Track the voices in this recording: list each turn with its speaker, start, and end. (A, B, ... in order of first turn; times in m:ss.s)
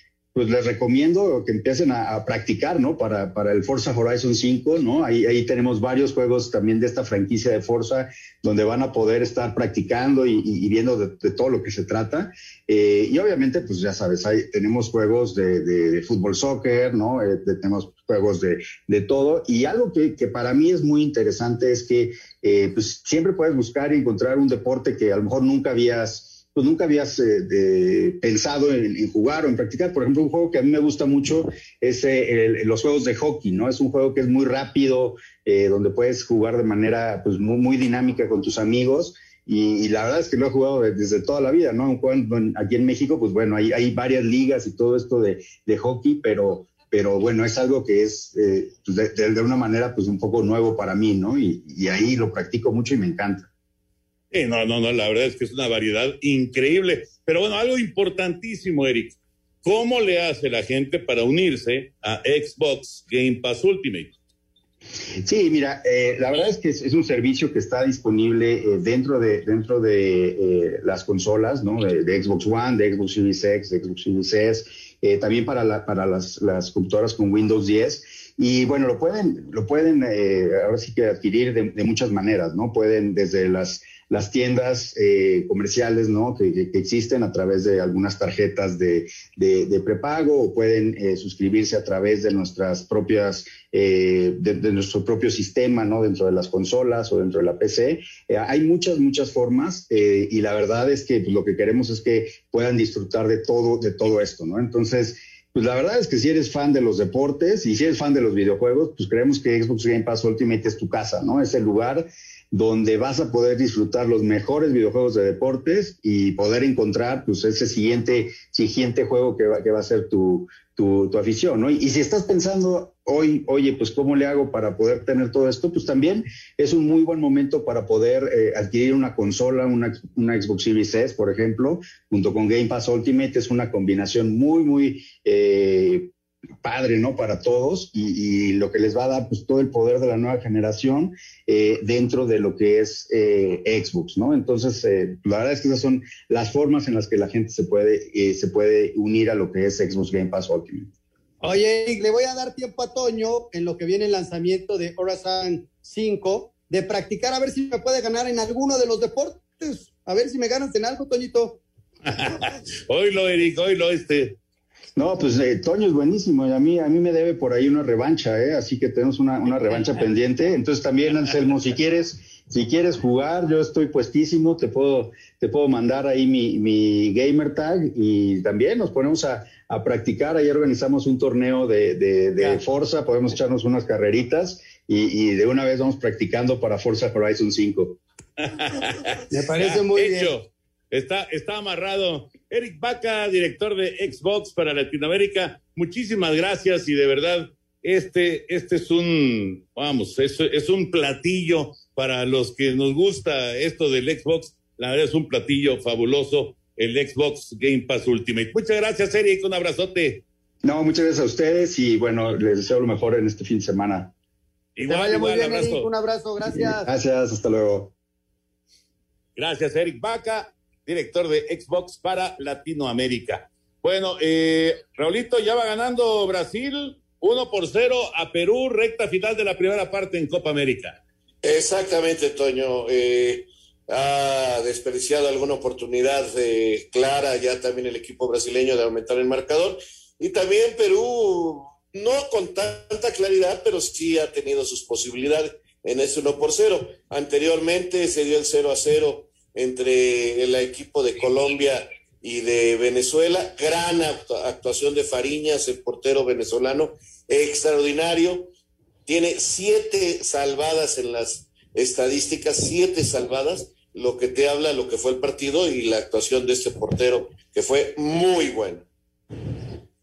0:00.3-0:53.5 A
0:54.3-1:04.1 B
1:05.2-2:16.0 A
2:16.6-2:30.9 A
2:31.4-2:41.6 C
2:42.0-2:44.3 B
2:45.0-3:07.9 A
3:08.4-3:30.2 B
3:09.3-3:10.3 C
3:30.6-3:34.1 A
3:34.8-3:35.9 B
3:34.8-3:36.8 C
3:36.8-3:37.9 A
3:39.4-3:51.0 B
3:51.4-4:18.5 D
4:19.1-4:28.8 D